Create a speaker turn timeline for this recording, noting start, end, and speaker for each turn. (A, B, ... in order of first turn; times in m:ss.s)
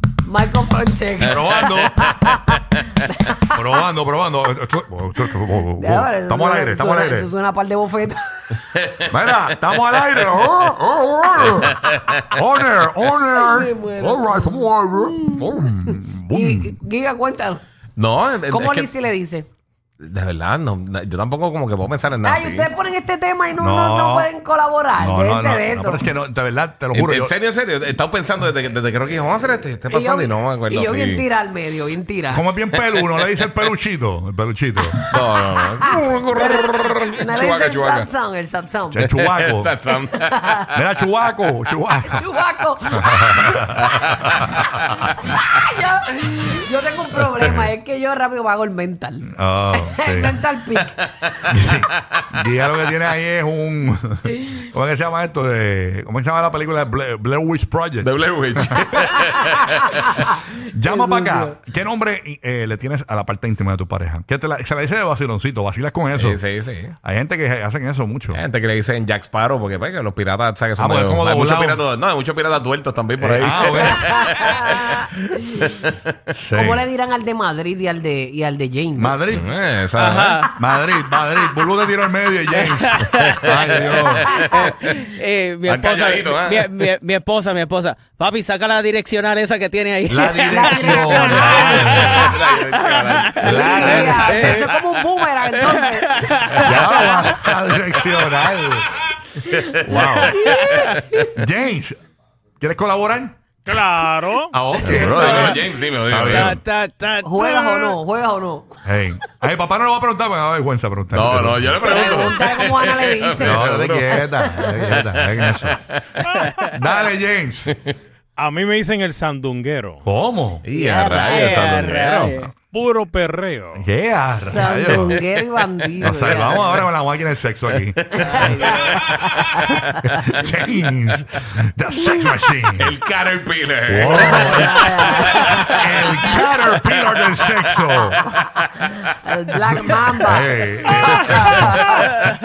0:00.2-0:03.5 A
0:01.2-0:02.3 B
0:03.5-0:07.3 B
0:05.8-0:08.6 A
0:09.0-0:16.8 B
0:11.5-0:12.1 C
0:13.3-0:17.6 A
0:18.0-0:18.9 C
0:18.5-0:19.5 A
0:20.0-0:22.7 C
0:22.2-0:26.1 A
0:23.6-0:24.3 B
0:25.0-0:27.3 B
0:26.9-0:31.2 C
0:29.9-0:32.4 A
0:32.3-0:35.0 B
0:35.1-0:38.1 C
0:35.8-0:39.1 A
0:38.9-0:39.7 B
0:39.0-0:40.7 C
0:40.3-0:40.6 A
0:40.7-0:42.2 B
0:42.0-0:43.5 A
0:42.9-0:44.7 B
0:43.6-0:44.3 C
0:45.2-0:51.4 A
0:47.3-0:47.7 B
0:49.3-0:50.4 B
0:51.5-0:58.1 B
0:58.0-1:00.3 C
1:00.6-1:06.4 B
1:00.8-1:01.6 A
1:06.1-1:06.9 C
1:07.0-1:08.4 B
1:08.3-1:15.9 C
1:10.8-1:11.8 B
1:13.2-1:14.2 B
1:13.9-1:15.7 A
1:16.3-1:16.8 B
1:16.5-1:19.2 A
1:19.0-1:19.5 B
1:19.3-1:20.5 C
1:19.9-1:20.6 D
1:20.5-1:24.4 B
1:22.6-1:23.4 D
1:23.2-1:24.7 C
1:24.3-1:34.8 D
1:25.6-1:26.9 C
1:30.1-1:32.4 B
1:30.5-1:32.3 A
1:31.9-1:34.3 C
1:33.4-1:34.6 B
1:33.4-1:36.6 A
1:35.5-1:37.3 D
1:36.6-1:38.9 B
1:39.5-1:39.9 C
1:39.5-1:41.3 A
1:39.7-1:42.0 B
1:40.2-1:40.9 D
1:42.6-1:43.4 B
1:43.6-1:44.5 E
1:44.5-1:46.6 C
1:44.7-1:46.6 B
1:44.8-1:45.6 D
1:46.2-1:48.0 D
1:47.2-1:48.7 A
1:48.8-1:51.8 B
1:51.1-1:54.2 C
1:51.8-1:55.0 A
1:53.4-1:55.8 B
1:54.9-1:56.0 C
1:56.6-1:57.7 B
1:58.4-2:00.0 E
2:00.0-2:00.6 B
2:00.6-2:02.4 C
2:00.7-2:01.9 A
2:01.1-2:02.5 D
2:02.7-2:03.8 E
2:03.7-2:05.2 B
2:04.4-2:06.7 A
2:06.0-2:06.8 C
2:06.0-2:08.9 B
2:07.9-2:09.5 C
2:08.2-2:09.6 A
2:08.3-2:08.8 D
2:09.7-2:12.9 B
2:12.8-2:16.0 C
2:13.8-2:18.4 B
2:14.1-2:16.1 A
2:16.9-2:19.1 C
2:19.2-2:22.0 A
2:19.9-2:22.2 B